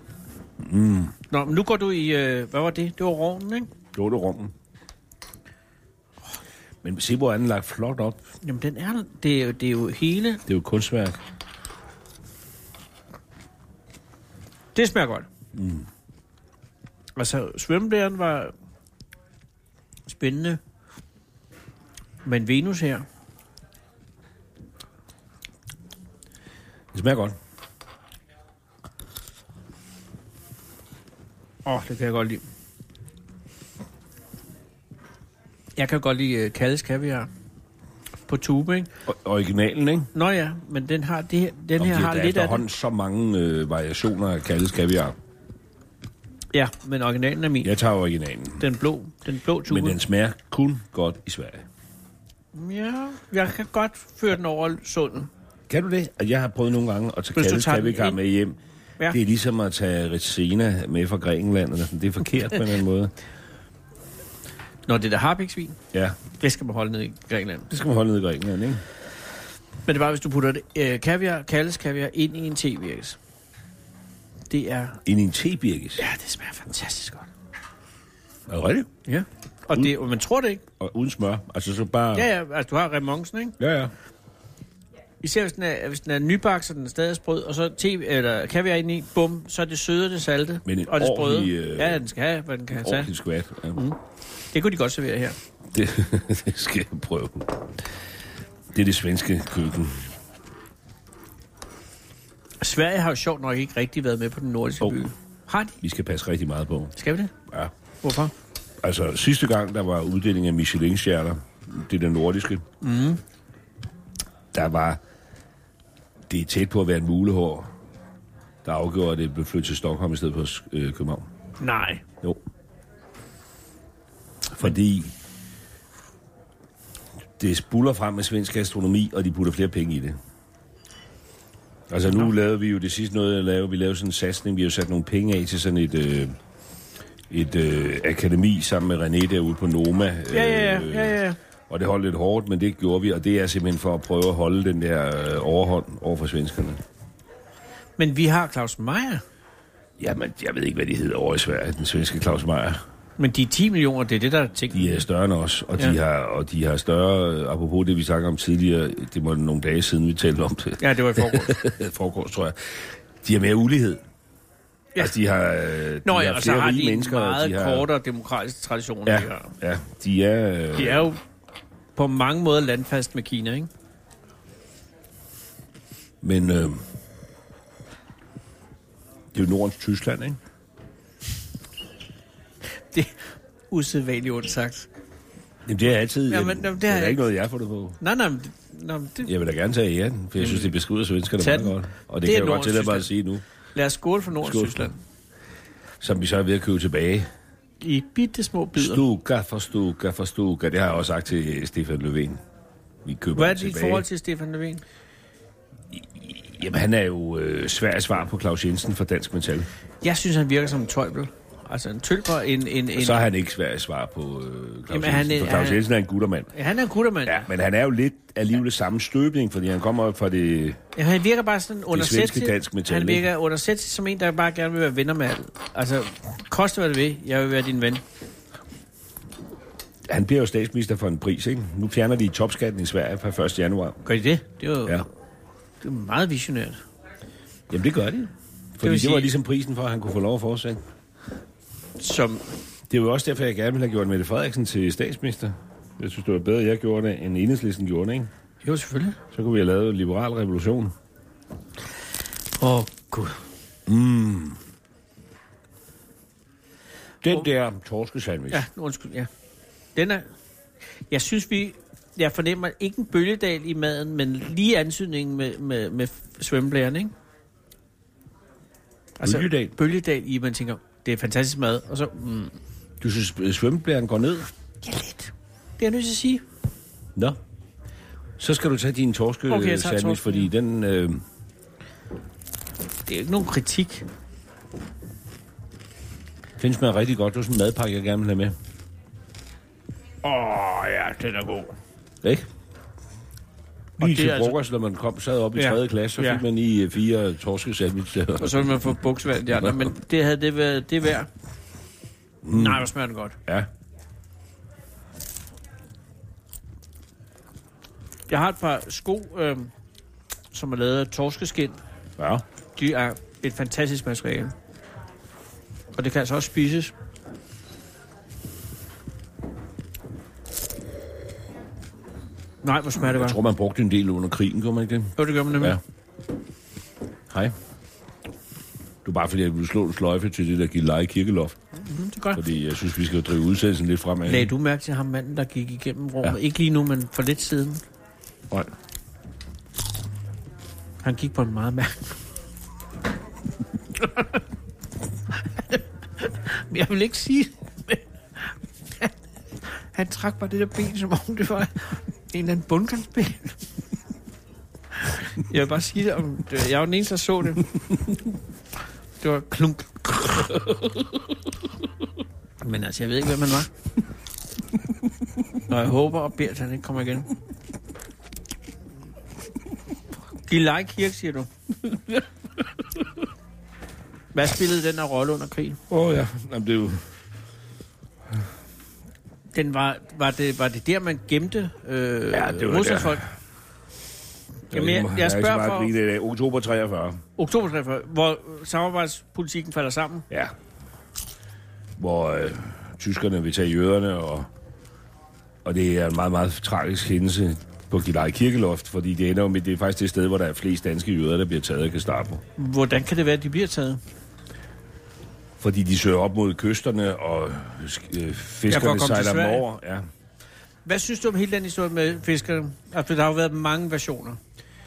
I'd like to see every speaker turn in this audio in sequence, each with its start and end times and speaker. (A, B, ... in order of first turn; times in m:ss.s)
0:00.6-0:01.2 A
0:01.3-0:03.7 B
0:03.9-0:04.5 A
0:06.8-0:08.2 A
0:08.4-0:10.4 B
0:10.5-0:11.2 A
0:14.8-0:15.3 B
0:15.5-0:15.9 A
0:17.2-0:18.5 B
0:20.1-0:20.6 B
0:22.2-0:23.1 B
0:26.9-0:27.4 A
0:31.7-0:32.4 B
0:35.8-0:37.3 B
0:38.3-0:38.9 B
0:39.1-0:40.1 A
0:40.1-0:42.6 B
0:41.8-0:45.2 A
0:46.5-0:47.7 B
0:47.6-0:48.7 A
0:48.6-0:50.0 B
0:49.7-0:51.6 A
0:52.5-0:55.3 B
0:55.7-0:58.6 A
0:57.4-0:58.2 B
0:59.1-1:03.1 A
1:04.9-1:05.8 B
1:06.4-1:07.7 B
1:07.7-1:08.8 A
1:09.9-1:13.2 B
1:14.5-1:15.0 B
1:15.0-1:16.0 A
1:16.0-1:17.3 B
1:18.5-1:18.9 A
1:19.1-1:20.6 B
1:20.8-1:22.3 A
1:22.1-1:23.6 B
1:23.6-1:23.9 A
1:25.2-1:33.1 B
1:30.6-1:32.0 A
1:32.7-1:33.9 A
1:34.5-1:35.4 B
1:35.7-1:37.6 A
1:38.7-1:40.0 A
1:42.6-1:45.8 B
1:45.8-1:47.0 A
1:47.0-1:47.3 B
1:48.0-1:48.3 B
1:48.8-1:52.6 A
1:52.8-1:53.2 B
1:54.5-1:55.0 A
1:56.3-1:57.7 A
1:58.6-2:01.3 A
2:01.6-2:02.0 B
2:04.5-2:05.1 A
2:07.4-2:10.2 A
2:11.9-2:16.4 A
2:17.3-2:26.8 A
2:20.3-2:21.4 B
2:28.0-2:29.2 B
2:30.0-2:32.8 A
2:33.2-2:35.0 B
2:34.7-2:44.0 A
2:40.8-2:41.6 B
2:45.0-2:47.9 A
2:46.0-2:49.5 B
2:49.1-2:51.1 A
2:50.7-2:51.2 B
2:52.0-2:53.7 B
2:56.2-2:56.8 A
2:59.3-3:00.4 A
3:02.9-3:04.9 B
3:05.7-3:08.0 A
3:06.3-3:07.3 B
3:08.0-3:09.3 B
3:09.3-3:13.4 A
3:10.4-3:10.8 B
3:11.4-3:13.1 B
3:13.8-3:15.0 B
3:14.4-3:14.9 A
3:16.0-3:17.3 A
3:17.8-3:19.0 B
3:18.8-3:22.4 A
3:23.0-3:24.0 A
3:23.4-3:24.8 B
3:25.9-3:29.7 A
3:30.0-3:33.2 B
3:33.0-3:36.5 A
3:34.9-3:35.8 B
3:36.5-3:37.5 B
3:37.2-3:40.8 A
3:41.0-3:48.0 B
3:41.9-3:43.3 A
3:50.1-3:54.0 A
3:54.0-3:55.0 B
3:55.8-3:56.8 B
3:57.7-4:00.8 A
3:58.8-3:59.3 B
4:02.0-4:02.5 B
4:02.9-4:08.3 A
4:08.6-4:09.2 B
4:09.3-4:10.9 A
4:12.6-4:13.4 B
4:13.9-4:14.6 A
4:17.2-4:18.7 A
4:18.5-4:19.3 B
4:20.0-4:20.3 B
4:21.1-4:27.1 B
4:29.2-4:32.6 B
4:29.2-4:29.8 A
4:33.0-4:34.5 A
4:34.8-4:36.4 B
4:38.4-4:41.2 A
4:39.5-4:40.5 B
4:43.1-4:44.1 B
4:46.6-4:48.6 A
4:50.2-4:51.7 B
4:52.2-4:52.5 A
4:54.0-4:54.6 B
4:54.0-4:58.9 A
4:55.6-4:56.4 B
4:58.4-5:01.3 B
5:02.4-5:02.9 A
5:02.5-5:03.4 B
5:08.3-5:09.7 B
5:10.5-5:11.8 B
5:12.2-5:12.4 A
5:12.8-5:14.5 B
5:16.0-5:16.9 B
5:22.6-5:23.4 B
5:23.0-5:25.8 A
5:25.2-5:25.8 B
5:27.3-5:27.6 A
5:29.0-5:31.6 A
5:31.8-5:32.4 B
5:32.3-5:34.5 A
5:34.3-5:37.8 B
5:41.0-5:42.1 B
5:44.0-5:44.4 B
5:45.3-5:49.1 B
5:49.8-5:53.6 B
5:55.1-5:57.7 B
5:59.2-6:01.2 B
6:02.6-6:03.7 B
6:05.7-6:07.3 B
6:10.4-6:11.5 B
6:14.3-6:15.8 B
6:15.9-6:17.0 A
6:19.5-6:23.2 B
6:22.3-6:23.3 A
6:24.7-6:25.9 B
6:24.7-6:27.2 A
6:27.4-6:30.3 B
6:30.3-6:30.6 A
6:32.0-6:34.5 A
6:35.6-6:42.4 A
6:42.6-6:44.0 B
6:45.6-6:50.1 A
6:48.7-6:49.6 B
6:50.9-6:54.4 B